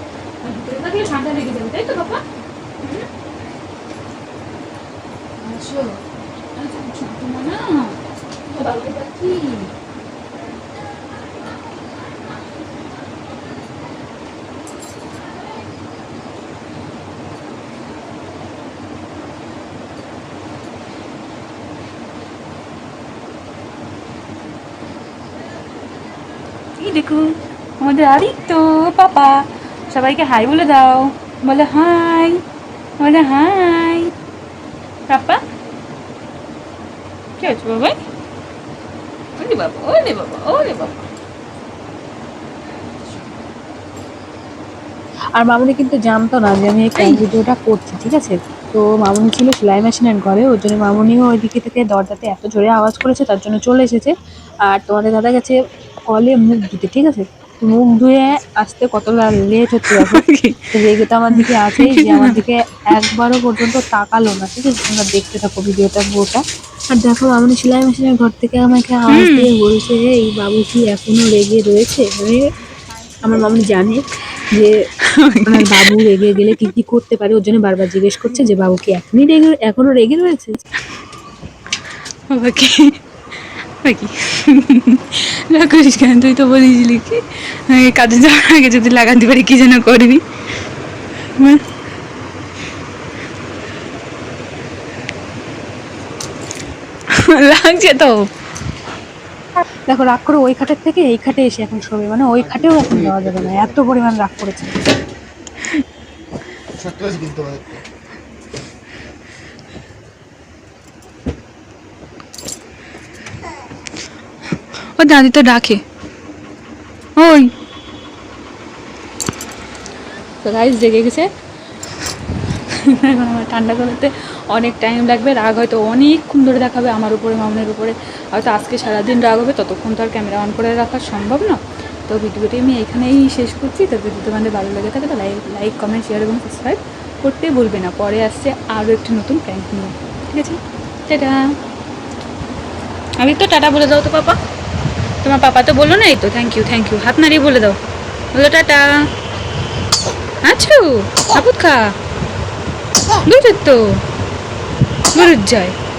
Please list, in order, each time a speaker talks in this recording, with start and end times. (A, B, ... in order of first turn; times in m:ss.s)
0:00.4-0:02.2 A
0:02.8-0:03.1 A
0:05.4-0:06.0 A
0:06.6-0:09.7 A
0:26.8-0:32.4 A
0:33.0-0:34.1 A
0:35.1-0:35.4 A
0:37.4-0:38.0 A
0:39.4-0:41.1 A
0:45.4-0:54.1 B
0:47.0-0:47.2 A
0:54.7-0:55.6 B
0:56.1-1:06.4 B
0:59.8-1:02.4 A
1:06.9-1:12.5 B
1:09.1-1:09.5 A
1:12.7-1:13.9 A
1:13.2-1:14.8 B
1:15.1-1:16.7 A
1:15.4-1:20.6 B
1:22.3-1:23.0 A
1:23.8-1:30.2 A
1:31.4-1:31.6 A
1:37.1-1:38.3 A
1:39.9-1:44.8 B
1:55.0-1:55.8 A
1:57.2-1:57.5 A
2:00.4-2:01.3 A
2:02.7-2:21.4 A
2:23.2-2:24.4 A
2:25.2-2:27.8 A
2:28.3-2:29.1 A
2:30.4-2:31.9 A
2:33.2-2:34.0 A
2:35.1-2:35.8 A